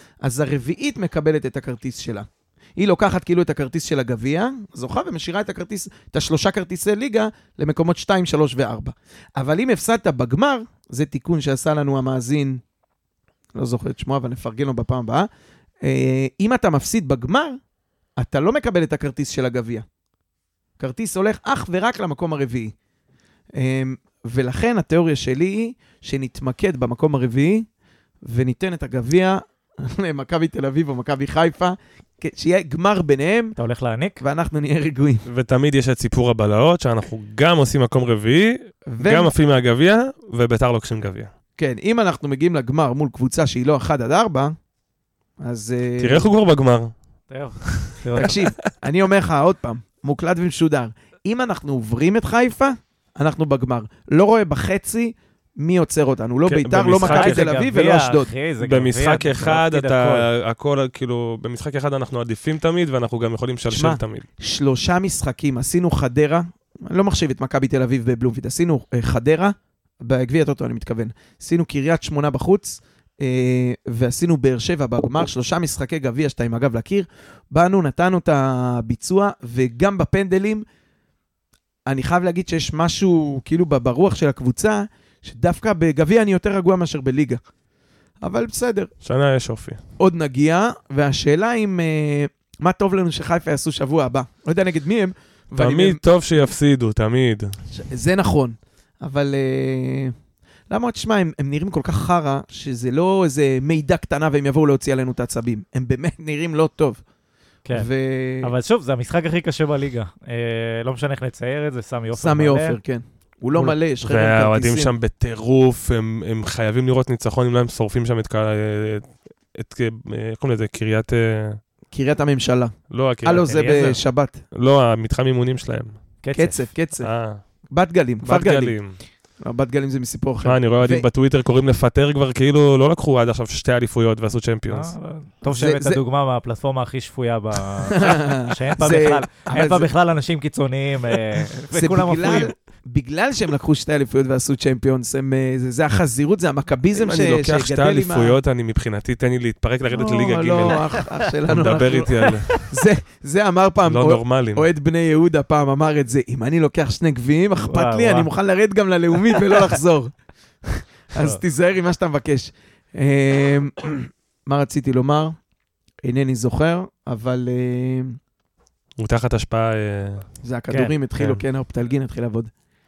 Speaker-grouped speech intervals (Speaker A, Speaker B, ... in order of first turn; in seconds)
Speaker A: 0.2-12.6, 13.6-15.3, 15.8-17.6, 18.2-19.8, 20.8-22.7, 23.6-27.7, 28.2-33.5, 34.2-35.2, 38.9-39.3, 41.6-44.5, 45.4-46.3, 48.2-58.3, 63.7-80.6, 81.9-87.4, 88.2-88.9, 90.0-96.0, 97.7-100.1, 100.7-107.0, 107.7-108.5, 112.1-114.9, 121.9-124.4, 126.3-127.1, 127.7-128.8, 129.4-131.1, 135.5-136.0, 137.9-139.9, 141.7-148.4, 149.9-160.1, 160.6-165.3, 166.0-168.2, 170.4-172.5
Speaker B: 33.6-34.2, 47.3-48.4, 57.0-60.3, 108.4-112.8, 123.3-124.0, 126.2-126.7, 134.7-142.5, 152.2-152.7, 157.6-158.3, 161.1-161.4, 170.7-171.4
Speaker C: 35.2-41.3, 46.0-46.9, 47.6-48.3, 56.5-57.5, 58.6-64.2, 89.0-89.8, 95.6-97.5, 114.0-121.6, 122.9-123.5, 124.5-126.0, 127.0-127.4, 128.2-129.0, 130.4-134.9, 146.9-150.8, 151.4-152.6, 153.9-154.7, 169.0-170.2